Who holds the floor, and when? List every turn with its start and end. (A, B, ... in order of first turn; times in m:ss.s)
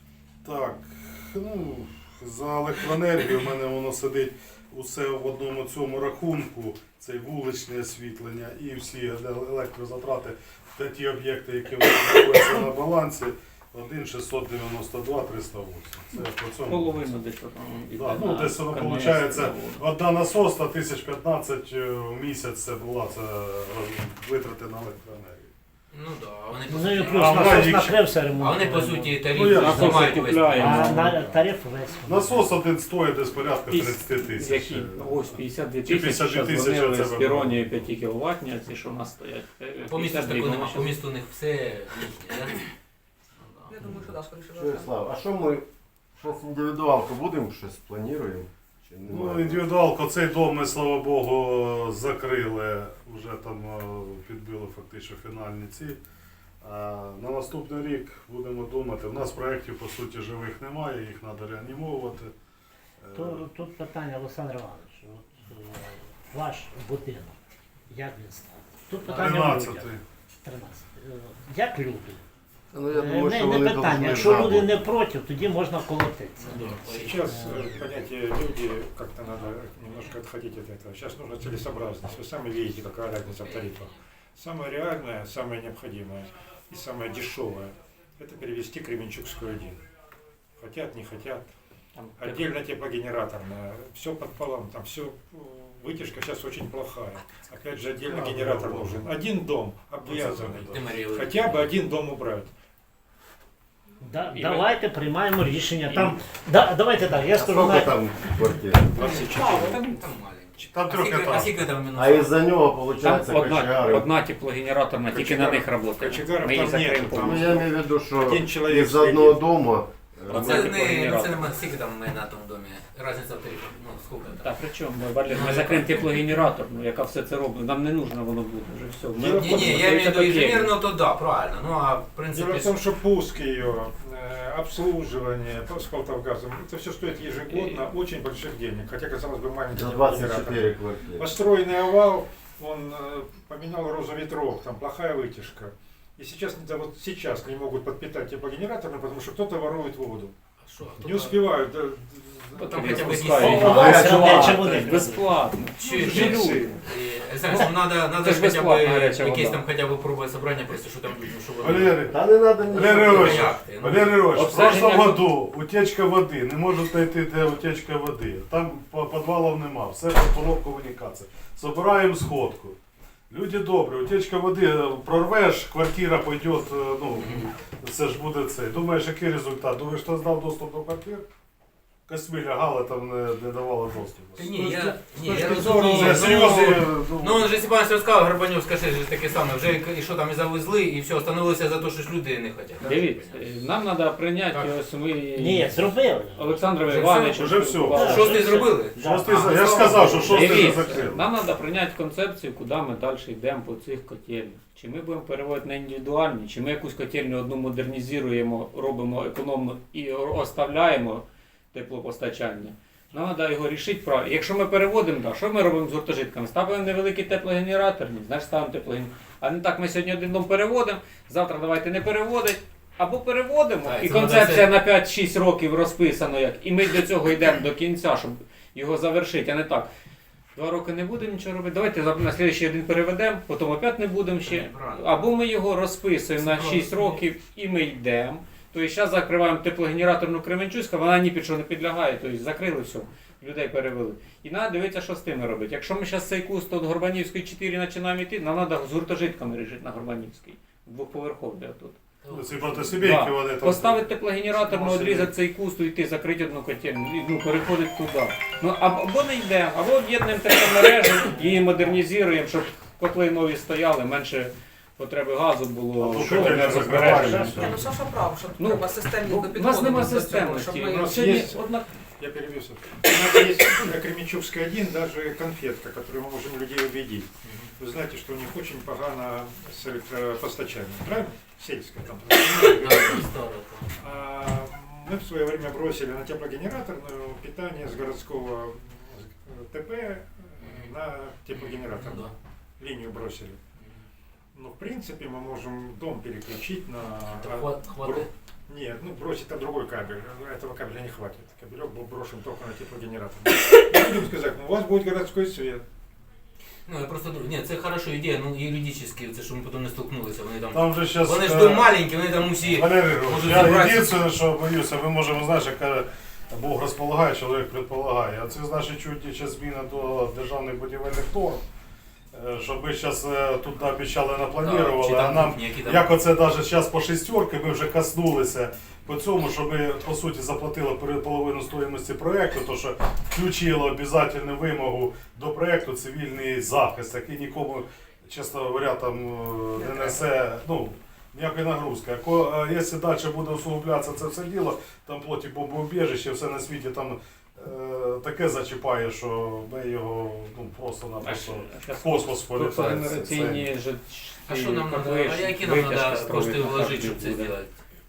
0:00.4-0:17.0 A
0:16.6-0:19.9 B
0:17.9-0:25.5 A
0:25.9-0:27.8 C
0:26.7-0:29.2 D
0:27.0-0:28.0 A
0:28.4-0:31.3 C
0:29.3-0:30.2 A
0:29.5-0:31.2 B
0:30.5-0:32.6 D
0:32.1-0:35.3 A
0:33.7-0:41.0 B
0:35.8-0:37.9 A
0:39.8-0:42.7 C
0:43.4-0:43.7 C
0:43.7-0:44.9 E
0:43.8-0:45.6 F
0:46.2-0:49.7 F
0:49.1-0:56.0 A
0:56.6-1:02.3 A
1:03.0-1:03.4 A
1:03.1-1:07.4 D
1:07.9-1:12.2 D
1:09.0-1:10.0 A
1:12.7-1:14.8 F
1:12.9-1:16.6 D
1:16.4-1:18.1 C
1:16.8-1:29.8 G
1:17.2-1:17.8 D
1:23.3-1:23.8 C
1:30.6-1:31.4 G
1:31.9-1:32.6 B
1:32.2-1:42.5 G
1:38.0-1:39.1 A
1:40.0-1:40.8 A
1:40.1-1:41.7 C
1:44.0-1:47.9 D
1:44.3-1:44.7 B
1:45.8-1:46.2 B
1:47.3-1:49.0 F
1:48.9-1:49.8 G
1:49.0-1:50.0 E
1:49.4-1:52.4 C
1:50.6-1:51.7 A
1:51.9-1:54.1 F
1:53.0-1:57.6 B
1:56.0-1:59.4 G
1:57.1-2:00.6 F
2:00.3-2:01.5 B
2:00.3-2:04.5 C
2:04.4-2:10.7 B
2:05.2-2:06.1 C
2:09.2-2:09.7 G
2:09.3-2:12.8 C
2:12.3-2:20.6 G
2:17.2-2:17.8 B
2:19.7-2:21.3 F
2:21.2-2:30.3 G
2:30.6-2:31.4 C
2:31.0-2:33.2 G
2:32.6-2:36.8 B
2:32.6-2:34.0 C
2:33.4-2:35.3 D
2:35.8-2:42.0 C
2:35.9-2:36.7 G
2:37.5-2:39.6 B
2:41.6-2:52.8 A
2:42.1-2:43.5 F
2:42.8-2:44.8 C
2:44.3-2:45.3 B
2:53.3-3:01.2 A
2:57.1-2:57.4 C
3:02.1-3:07.5 A
3:04.4-3:13.5 C
3:04.8-3:06.4 B
3:12.8-3:18.9 B
3:15.4-3:16.6 D
3:16.8-3:20.6 C
3:17.3-3:18.2 A
3:17.9-3:18.7 D
3:18.9-3:21.3 A
3:20.2-3:49.9 B
3:43.8-3:44.7 C
3:50.5-4:12.0 B
3:54.4-3:55.1 C
3:56.4-3:57.2 C
4:12.2-4:12.9 C
4:12.3-4:15.3 A
4:12.9-4:27.8 B
4:26.0-4:27.8 A
4:27.6-4:31.0 E
4:28.6-4:31.9 B
4:30.9-4:31.6 G
4:32.2-4:37.3 G
4:37.8-4:43.2 G
4:42.2-4:44.0 C
4:44.0-4:53.6 G
4:50.6-4:50.9 C
4:51.5-4:52.3 C
4:53.8-4:54.0 C
4:54.5-5:05.8 G
4:57.2-4:58.3 C
5:06.9-5:14.2 C
5:10.7-5:11.9 A
5:12.6-5:21.6 A
5:22.3-5:53.7 A
5:24.6-5:26.2 C
5:39.7-5:40.2 E
5:51.2-5:57.5 B
5:54.5-5:57.8 C